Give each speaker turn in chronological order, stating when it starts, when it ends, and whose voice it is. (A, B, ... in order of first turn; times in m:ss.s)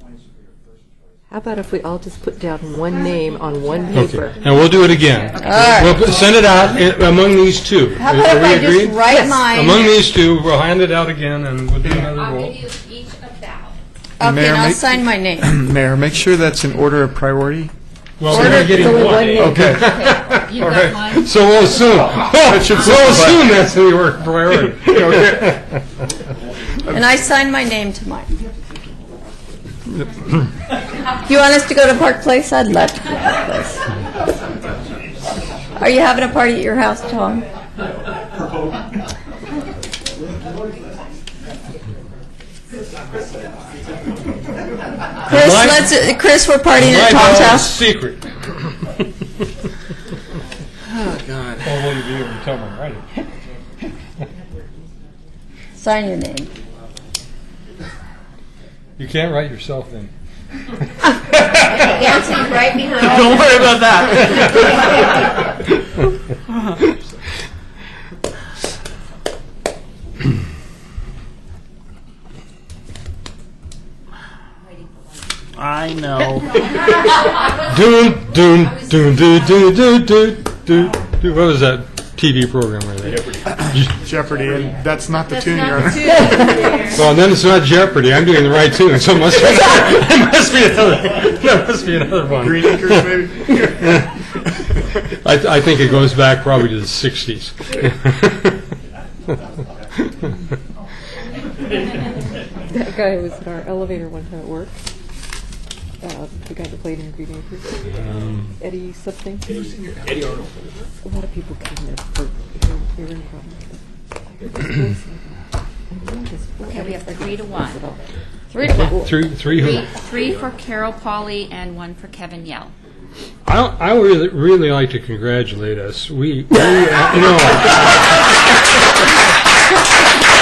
0:01.3-0:04.7 A
0:03.7-0:04.2 B
0:03.9-0:12.6 C
0:05.3-0:06.3 B
0:05.4-0:06.2 D
0:08.0-0:09.9 D
0:11.8-0:12.1 E
0:12.2-0:13.8 B
0:14.2-0:15.6 D
0:14.2-0:17.7 E
0:18.2-0:25.6 C
0:18.3-0:19.7 D
0:18.3-0:20.0 E
0:19.8-0:21.7 B
0:20.5-0:21.0 E
0:22.4-0:23.5 E
0:24.8-0:25.6 E
0:26.9-0:28.3 D
0:31.2-0:33.8 D
0:35.8-0:37.4 D
0:45.3-0:47.8 D
0:45.3-0:45.9 C
0:46.7-0:48.4 C
0:51.5-0:53.1 C
0:55.8-0:56.5 D
0:59.0-1:00.1 C
1:01.4-1:01.8 C
1:01.5-1:03.8 D
1:03.0-1:05.4 F
1:15.5-1:16.6 F
1:17.6-1:24.0 C
1:23.5-1:26.6 E
1:25.2-1:27.1 D
1:26.2-1:26.9 A
1:26.9-1:33.2 C
1:32.4-1:34.1 E
1:33.8-1:34.1 C
1:35.2-1:38.6 C
1:42.7-1:44.8 A
1:46.0-1:48.0 A
1:48.0-1:48.5 C
1:48.6-1:49.7 A
1:51.0-1:58.0 A
1:56.6-1:57.8 B
1:58.5-1:59.0 D
1:58.6-1:59.3 A
1:58.7-1:59.9 C
1:59.5-2:02.7 B
2:03.4-2:08.3 C